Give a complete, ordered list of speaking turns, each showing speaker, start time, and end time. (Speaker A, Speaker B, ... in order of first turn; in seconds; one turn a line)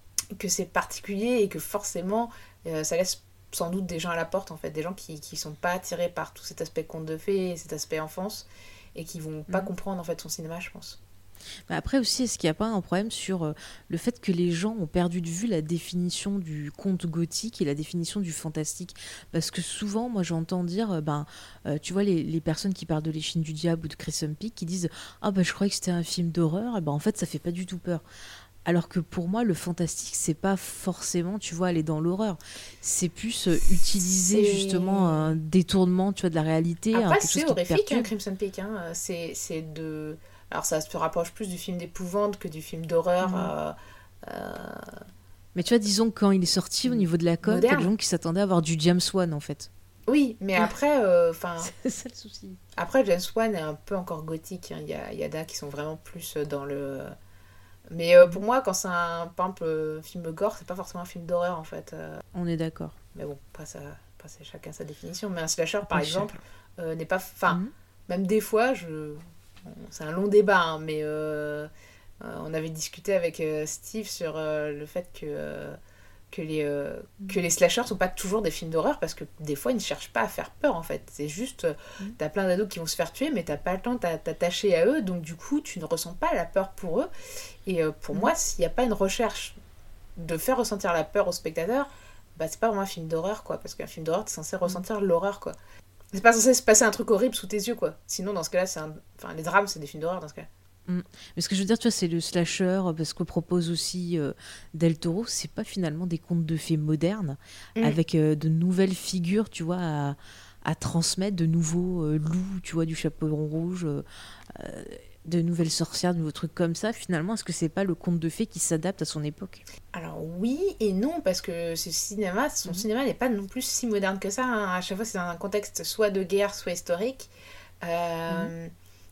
Speaker A: 0.3-11.0
Speaker B: 11.7-28.0
Speaker B: 28.6-38.1
Speaker A: 34.3-35.4
Speaker A: 36.9-45.0
Speaker B: 43.2-43.5
Speaker B: 45.5-49.7
Speaker A: 46.9-47.9
Speaker A: 50.1-51.7
Speaker B: 51.6-52.6
Speaker A: 52.8-57.1
Speaker A: 57.9-62.2
Speaker B: 62.3-63.0
Speaker A: 63.1-75.8
Speaker B: 65.9-66.4
Speaker A: 76.3-87.1
Speaker A: 87.7-89.6
Speaker A: 90.2-95.5
Speaker A: 96.1-100.5
Speaker B: 100.9-119.6
Speaker A: 119.9-127.3
Speaker A: 127.8-128.7